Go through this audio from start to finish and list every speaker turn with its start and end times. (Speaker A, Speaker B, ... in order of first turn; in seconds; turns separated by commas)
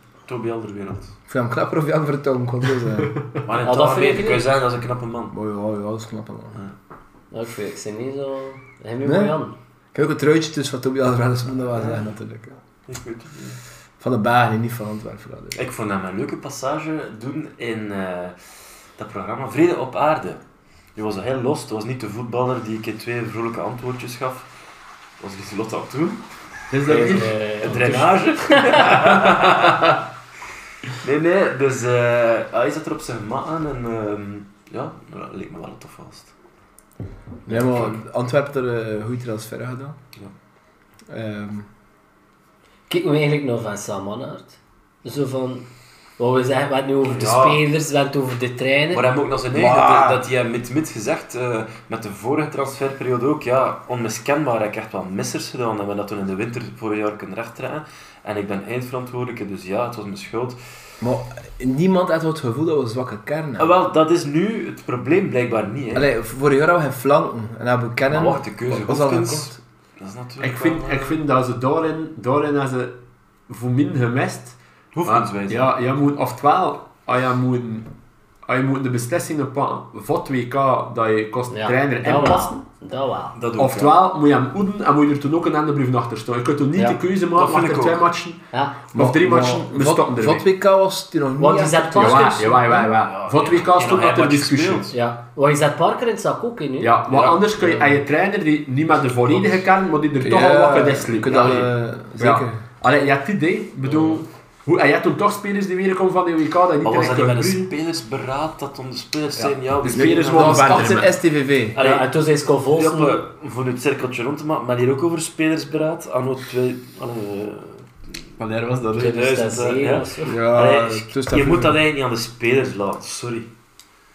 Speaker A: 0.2-1.1, Speaker B: 1.3-3.1, Speaker A: 3.4-5.3, Speaker C: 3.6-4.5, Speaker B: 5.3-6.6, Speaker C: 7.3-9.5, Speaker B: 9.0-9.3, Speaker B: 9.9-12.6, Speaker A: 11.8-12.0, Speaker A: 12.9-13.6, Speaker B: 14.0-15.6, Speaker A: 15.5-18.4, Speaker A: 19.0-20.4, Speaker A: 20.9-24.5, Speaker A: 25.2-26.2, Speaker D: 26.7-28.1, Speaker A: 26.9-30.0, Speaker C: 26.9-28.9, Speaker D: 28.7-29.9, Speaker A: 30.9-36.3, Speaker B: 37.5-40.0, Speaker A: 37.5-38.0, Speaker B: 41.1-41.7, Speaker C: 42.9-45.6, Speaker C: 46.2-49.0, Speaker A: 47.1-47.6, Speaker A: 48.9-60.6, Speaker B: 49.5-50.2, Speaker B: 61.0-63.7, Speaker A: 63.6-66.1, Speaker B: 65.9-69.6, Speaker A: 68.1-71.2, Speaker D: 70.4-73.0, Speaker D: 73.5-77.9, Speaker A: 74.9-75.7, Speaker D: 78.4-82.6, Speaker C: 81.5-83.3, Speaker A: 82.1-82.4, Speaker A: 83.3-84.0, Speaker D: 83.6-90.4, Speaker A: 87.3-88.1, Speaker C: 88.5-88.8, Speaker B: 88.9-92.9, Speaker C: 91.4-92.7, Speaker D: 91.9-94.9, Speaker A: 93.0-95.0, Speaker C: 94.9-96.9, Speaker D: 96.8-107.7, Speaker A: 97.1-97.4, Speaker B: 100.2-102.6, Speaker A: 103.8-104.2, Speaker A: 106.8-111.2, Speaker D: 109.4-111.0, Speaker B: 109.9-111.8, Speaker A: 111.7-112.1, Speaker C: 111.8-113.2, Speaker A: 112.7-118.3, Speaker D: 118.4-119.2, Speaker C: 118.9-120.4, Speaker A: 118.9-123.5, Speaker B: 120.2-121.8